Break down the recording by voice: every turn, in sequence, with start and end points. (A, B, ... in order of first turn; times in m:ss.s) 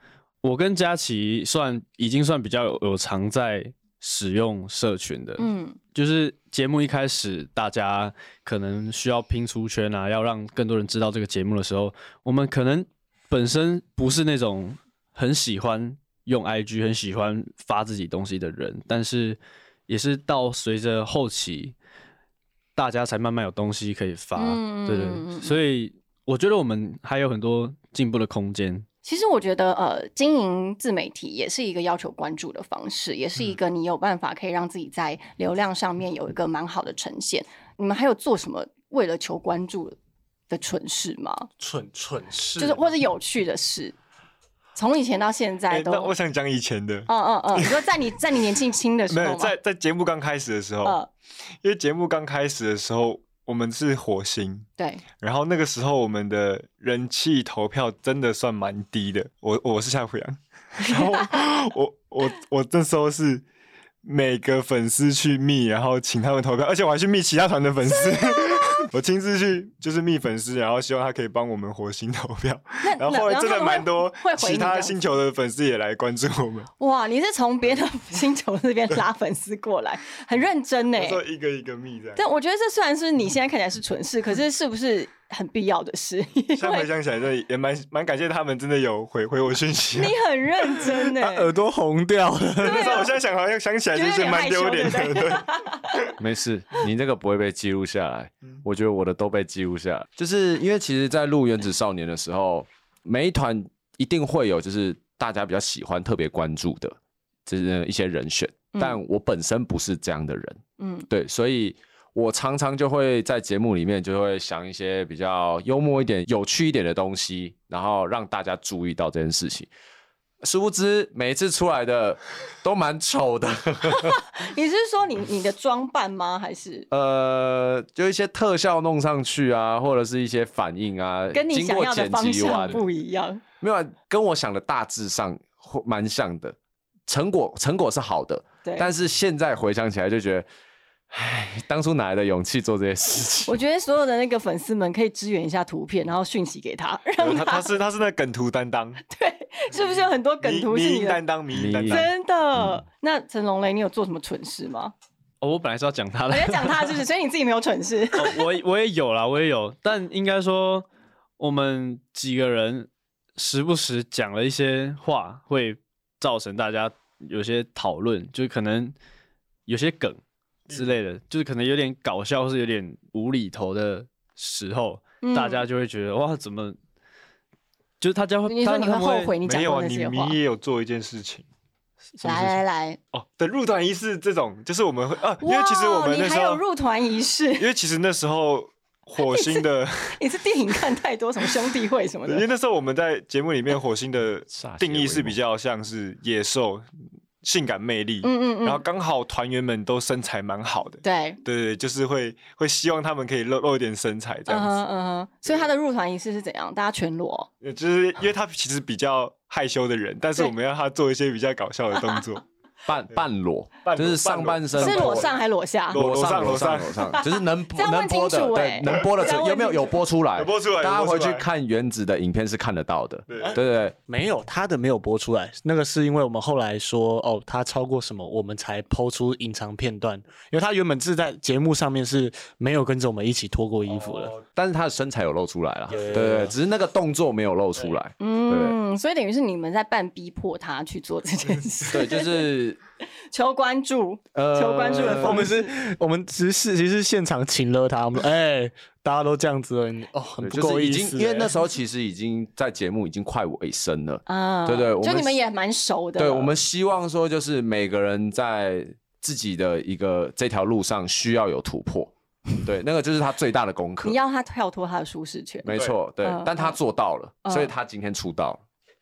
0:00.4-0:21.8 A
0:05.4-0:05.8 B
0:22.8-0:28.9 A
0:24.4-0:25.6 B
0:29.0-0:40.0 B
0:40.5-0:41.5 B
0:41.6-0:43.0 C
0:42.6-0:44.0 B
0:44.8-0:46.2 B
0:45.7-0:47.8 D
0:47.1-0:49.5 B
0:49.1-0:51.0 D
0:51.6-1:03.4 D
0:54.8-0:55.0 B
1:00.9-1:01.3 B
1:04.0-1:16.7 D
1:08.1-1:08.8 B
1:12.8-1:15.0 B
1:16.8-1:21.2 B
1:20.9-1:22.2 D
1:22.2-1:26.9 B
1:26.6-1:30.2 D
1:30.0-1:31.5 B
1:30.9-1:33.0 C
1:32.6-1:36.1 D
1:32.6-1:33.1 B
1:33.9-1:36.1 B
1:36.2-1:59.7 E
1:48.7-1:49.0 B
1:50.8-1:51.1 B
2:00.4-2:04.2 E
2:04.0-2:06.9 B
2:06.9-2:12.8 E
2:11.3-2:13.4 B
2:13.6-2:16.6 E
2:17.1-2:20.5 E
2:18.6-2:18.9 B
2:21.1-2:23.6 E
2:23.5-2:27.7 B
2:27.2-2:29.0 D
2:29.1-2:31.2 B
2:30.4-2:32.1 D
2:31.5-2:32.8 E
2:31.8-2:34.9 B
2:35.4-2:37.0 A
2:36.3-2:38.4 B
2:38.1-2:40.9 A
2:41.4-2:49.0 A
2:49.7-2:56.8 A
2:55.2-2:55.6 B
2:58.0-2:59.4 A
2:58.5-3:00.4 B
2:59.4-3:01.5 D
3:02.2-3:02.6 A
3:02.2-3:03.0 B
3:03.1-3:06.6 D
3:05.4-3:07.7 B
3:07.6-3:10.2 D
3:09.2-3:12.4 B
3:12.3-3:16.9 D
3:14.5-3:15.4 E
3:17.4-3:24.8 D
3:18.2-3:18.8 B
3:21.0-3:21.4 B
3:24.5-3:27.5 B
3:27.6-3:32.4 D
3:32.9-3:35.3 E
3:33.8-3:35.3 D
3:34.8-3:36.0 B
3:35.9-3:37.2 D
3:35.9-3:44.0 E
3:37.1-3:40.0 B
3:40.4-3:41.5 D
3:43.3-3:43.6 D
3:44.1-3:54.4 C
3:54.0-3:54.4 D
3:54.5-3:58.8 E
3:55.9-3:56.6 C
3:58.2-4:02.5 B
4:01.9-4:02.8 E
4:03.3-4:05.7 B
4:04.3-4:05.5 E
4:05.0-4:11.6 C
4:10.4-4:15.4 E
4:14.3-4:16.6 B
4:16.2-4:24.2 E
4:24.0-4:26.8 B
4:25.6-4:28.6 E
4:27.4-4:27.7 B